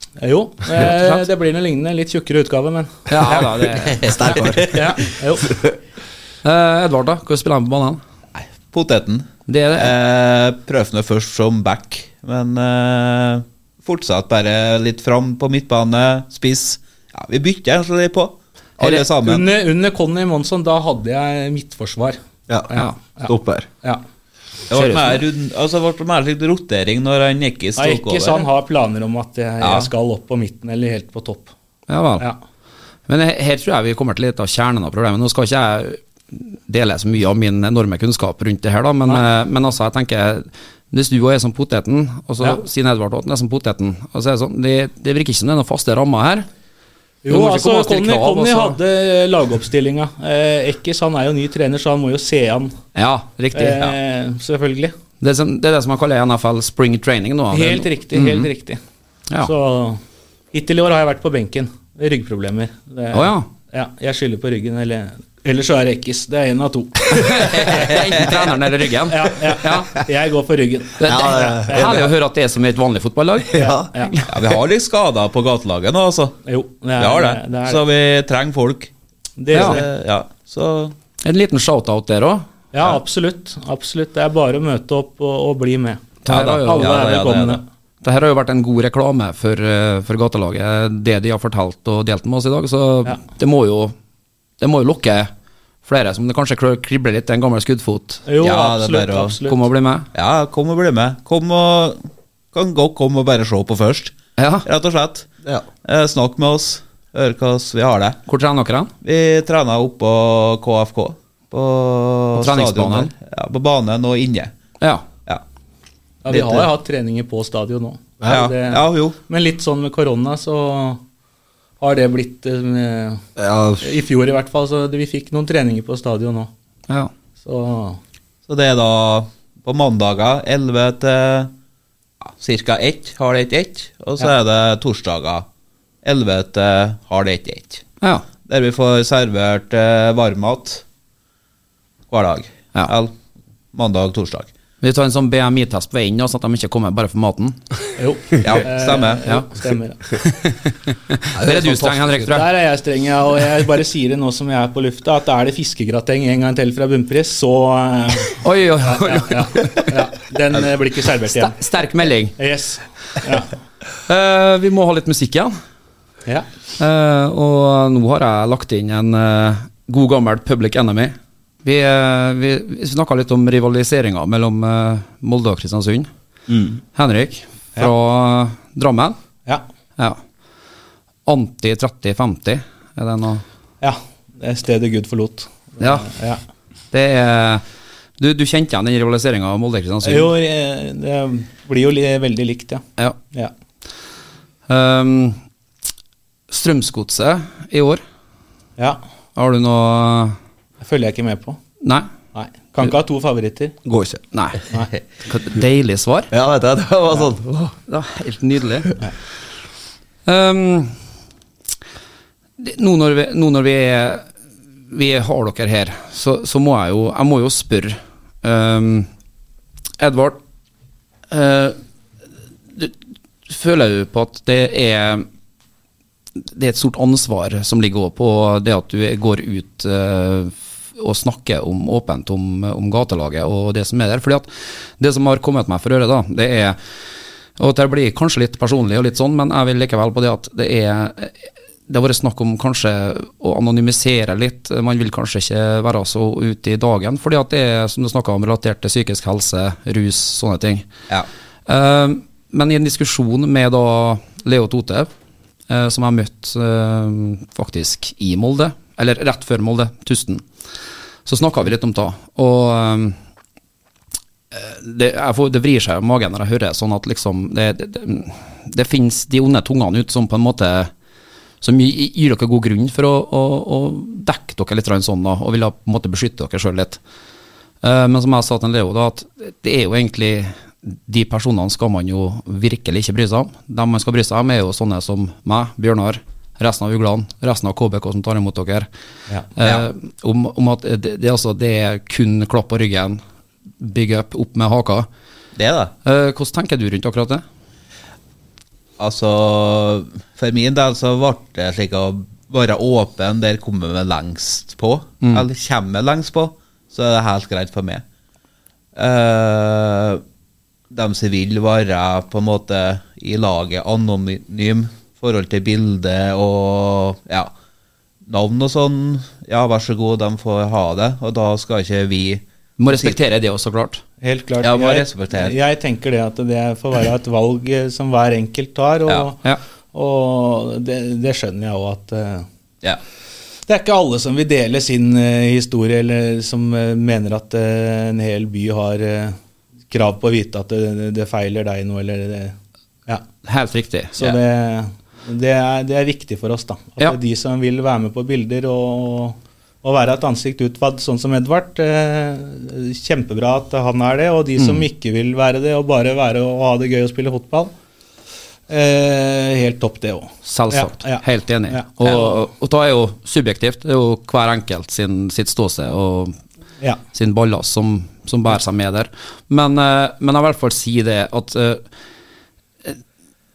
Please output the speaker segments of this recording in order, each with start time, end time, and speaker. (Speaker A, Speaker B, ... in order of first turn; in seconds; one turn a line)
Speaker A: 0.2-3.0
Speaker B: 0.8-1.2
Speaker B: 3.1-4.2
Speaker C: 3.8-5.0
Speaker D: 4.1-4.9
Speaker A: 4.7-5.6
Speaker B: 6.4-8.0
Speaker C: 8.4-19.5
Speaker B: 9.5-9.9
Speaker A: 19.1-22.2
Speaker A: 22.7-24.0
Speaker D: 23.2-23.7
Speaker C: 24.7-28.5
Speaker B: 24.7-25.2
Speaker A: 27.8-31.5
Speaker C: 29.6-29.9
Speaker B: 31.9-32.3
Speaker B: 33.1-46.5
Speaker A: 47.2-52.7
Speaker B: 47.3-48.8
Speaker B: 53.0-53.9
Speaker A: 53.5-55.0
Speaker B: 55.2-58.5
Speaker A: 57.5-58.8
Speaker A: 59.4-60.0
Speaker A: 60.5-68.5
Speaker B: 63.1-63.5
Speaker B: 67.1-69.9
Speaker A: 69.1-72.1
Speaker B: 71.0-74.2
Speaker D: 71.1-72.0
Speaker D: 73.5-73.9
Speaker A: 73.5-74.1
Speaker C: 74.3-76.4
Speaker A: 76.5-77.8
Speaker C: 77.0-78.9
Speaker A: 79.4-79.9
Speaker B: 79.5-79.8
Speaker C: 79.5-81.0
Speaker B: 81.2-82.5
Speaker A: 82.7-87.6
Speaker B: 86.2-87.0
Speaker C: 86.3-87.6
Speaker B: 88.0-93.9
Speaker B: 94.6-95.3
Speaker B: 95.8-98.2
Speaker A: 98.3-99.6
Speaker C: 98.4-99.4
Speaker B: 99.5-100.1
Speaker C: 100.1-105.3
Speaker B: 104.4-104.7
Speaker C: 105.8-108.2
Speaker B: 108.3-108.9
Speaker C: 109.0-114.5
Speaker B: 112.3-113.1
Speaker B: 114.8-115.0
Speaker A: 116.2-121.0
Speaker C: 116.3-116.7
Speaker C: 118.3-119.2
Speaker A: 121.8-123.2
Speaker D: 123.4-123.9
Speaker A: 123.8-126.5
Speaker A: 127.4-128.0
Speaker C: 128.5-131.5
Speaker C: 132.2-135.5
Speaker C: 136.1-137.8
Speaker C: 138.5-140.8
Speaker C: 142.1-143.1
Speaker C: 143.7-144.5
Speaker B: 144.8-147.6
Speaker A: 148.0-150.2
Speaker C: 148.4-149.3
Speaker B: 150.2-152.5
Speaker D: 151.4-152.3
Speaker A: 152.3-161.6
Speaker B: 158.4-159.9
Speaker B: 161.3-162.4
Speaker A: 162.4-163.5
Speaker B: 164.1-165.5
Speaker B: 166.8-176.1
Speaker B: 176.9-179.2
Speaker B: 181.3-183.4
Speaker A: 183.8-186.4
Speaker B: 185.8-186.1
Speaker B: 186.9-187.6
Speaker B: 188.2-190.3
Speaker A: 190.0-193.5
Speaker B: 194.7-195.4
Speaker B: 196.5-198.0
Speaker B: 199.3-200.4
Speaker A: 200.8-201.6
Speaker B: 201.8-202.1
Speaker A: 202.3-203.8
Speaker D: 203.8-204.2
Speaker B: 204.3-204.6
Speaker B: 205.2-206.3
Speaker D: 206.3-207.7
Speaker B: 207.9-208.9
Speaker B: 210.3-210.9
Speaker B: 212.6-214.2
Speaker B: 214.9-219.1
Speaker B: 220.0-220.4
Speaker B: 221.3-221.8
Speaker B: 223.5-225.3
Speaker B: 226.5-234.5
Speaker B: 235.0-236.8
Speaker B: 237.6-250.9
Speaker B: 251.7-255.1
Speaker B: 255.7-260.4
Speaker B: 261.3-263.2
Speaker B: 264.5-270.9
Speaker B: 271.6-277.0
Speaker B: 277.8-288.9
Speaker B: 289.6-293.2
Speaker B: 293.8-295.1
Speaker C: 295.6-295.9
Speaker B: 296.1-297.4
Speaker C: 299.0-308.0
Speaker C: 309.0-310.2
Speaker C: 310.9-317.5
Speaker C: 318.3-323.2
Speaker B: 322.8-324.0
Speaker A: 324.2-332.5
Speaker C: 324.6-325.6
Speaker A: 333.7-339.4
Speaker A: 339.9-342.5
Speaker B: 343.4-344.4
Speaker A: 344.2-357.7
Speaker B: 354.6-354.9
Speaker A: 358.7-362.4
Speaker B: 360.4-366.4
Speaker B: 367.1-371.8